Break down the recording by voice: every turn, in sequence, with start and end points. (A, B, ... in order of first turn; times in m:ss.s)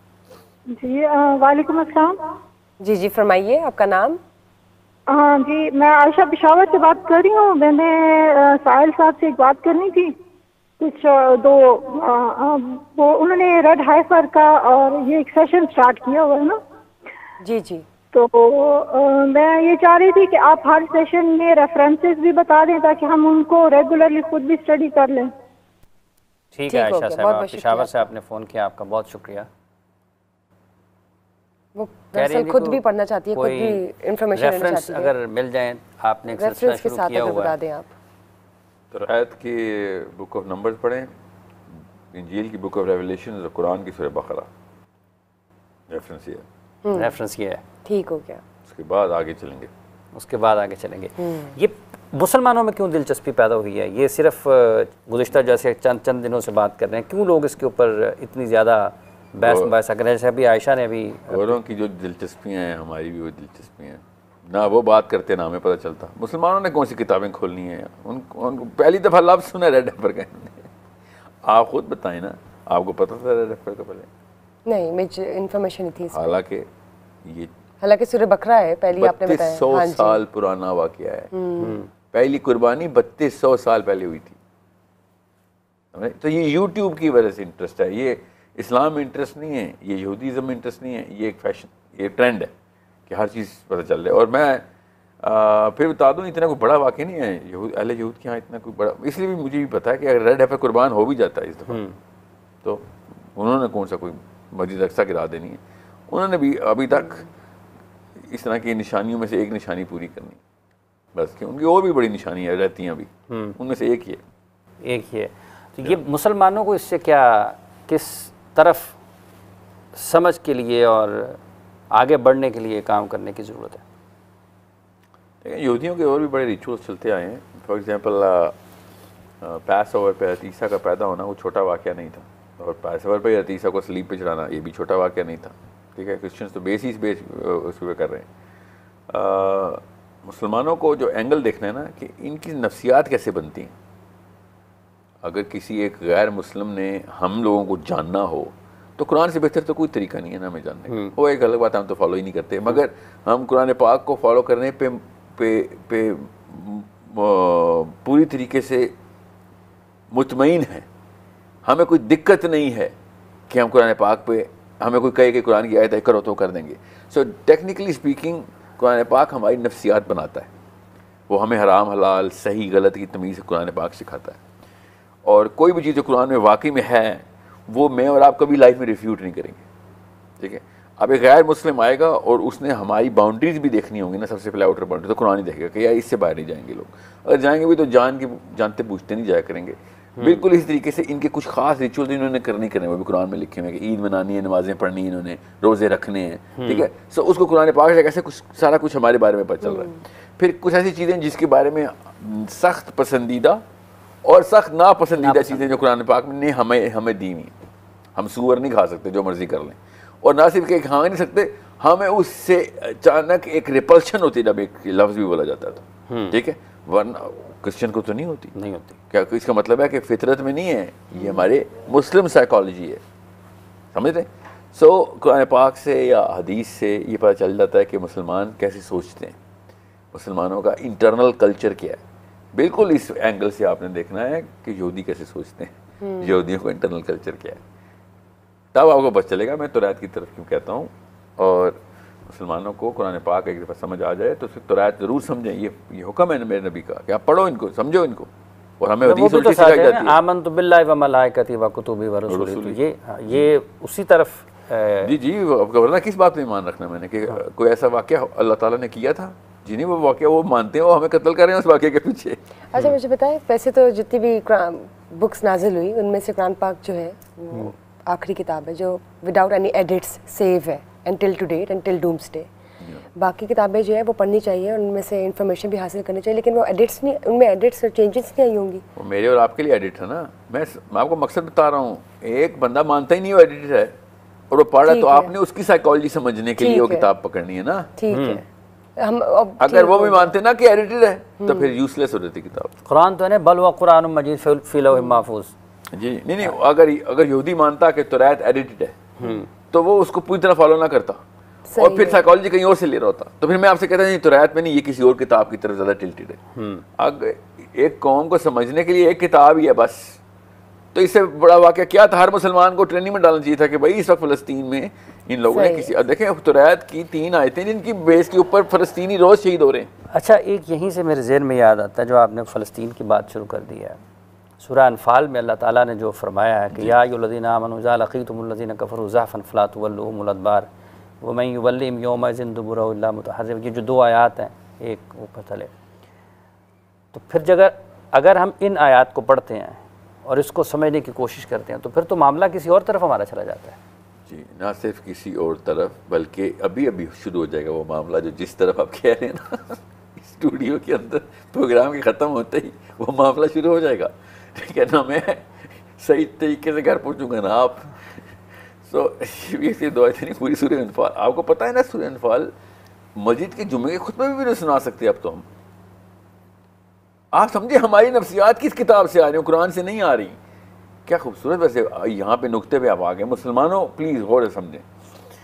0:00.7-0:02.2 A
0:02.8-0:04.2 B
0:05.1-0:10.1 A
0:10.8-0:16.6 A
0:17.4-0:17.8 B
0:18.1-0:25.3 A
0:26.5-0:29.5 C
0:26.7-0:28.1 B
0:31.8-0:35.1 B
0:32.2-0:32.8 C
0:33.3-0:33.8 C
0:34.4-0:37.6 C
0:36.3-0:37.9 B
0:38.9-0:41.1 D
0:42.1-0:44.5 D
0:45.9-0:46.4 D
0:46.8-0:47.2 B
0:46.9-0:47.6 C
0:47.8-0:48.4 B
0:48.6-0:49.7 D
0:50.1-1:01.6 C
0:51.2-0:51.5 B
0:59.4-0:59.7 D
1:01.3-1:10.7 D
1:11.4-1:14.1 D
1:14.7-1:16.2 B
1:16.1-1:16.6 D
1:17.2-1:17.5 D
1:17.8-1:20.2 B
1:18.9-1:21.3 D
1:21.3-1:21.8 B
1:21.6-1:21.9 C
1:22.1-1:24.4 D
1:25.9-1:32.5 D
1:33.1-1:34.6 D
1:35.2-1:41.8 D
1:41.7-1:42.0 C
1:42.6-1:47.3 D
1:48.3-1:50.4 D
1:51.1-1:54.2 D
1:53.3-1:53.6 C
1:54.8-1:59.0 C
2:00.0-2:01.4 C
2:01.9-2:03.8 C
2:05.4-2:08.6 D
2:09.4-2:18.3 D
2:19.1-2:23.7 D
2:25.2-2:38.9 D
2:40.1-2:40.9 D
2:41.6-2:42.9 D
2:43.5-2:50.5 D
2:51.3-2:54.4 D
2:55.2-2:59.6 D
3:00.4-3:23.6 D
3:10.2-3:10.4 C
3:16.6-3:16.9 C
3:24.2-3:27.5 D
3:25.2-3:25.8 C
3:28.2-3:38.5 D
3:36.1-3:36.4 C
3:38.6-3:39.0 C
3:39.1-3:43.0 D
3:41.2-3:41.5 B
3:43.9-3:49.4 D
3:50.1-3:52.0 D
3:52.6-3:57.6 D
3:56.0-3:56.3 B
3:58.7-4:08.3 D
4:08.8-4:10.2 D
4:09.0-4:15.1 C
4:12.3-4:13.5 D
4:15.0-4:22.4 D
4:22.7-4:32.5 B
4:33.2-4:38.8 B
4:39.0-4:44.0 D
4:44.5-4:48.0 D
4:44.8-4:45.3 B
4:46.6-4:47.1 B
4:48.0-4:48.5 B
4:48.1-4:48.4 C
4:49.0-4:50.4 B
4:49.6-4:52.7 D
4:51.4-4:51.8 B
4:52.9-4:55.5 C
4:55.9-4:59.2 D
4:59.2-4:59.5 C
4:59.7-5:01.2 D
5:01.7-5:02.2 B
5:01.8-5:06.4 D
5:06.6-5:06.8 C
5:07.0-5:10.2 D
5:10.9-5:19.9 D
5:15.5-5:15.9 B
5:20.1-5:24.0 C
5:24.6-5:30.7 C
5:26.7-5:27.0 D
5:31.2-5:35.7 C
5:37.1-5:43.8 C
5:44.3-5:58.0 D
5:58.8-6:02.5 D
6:03.2-6:05.4 D
6:07.3-6:10.4 D
6:11.1-6:14.9 D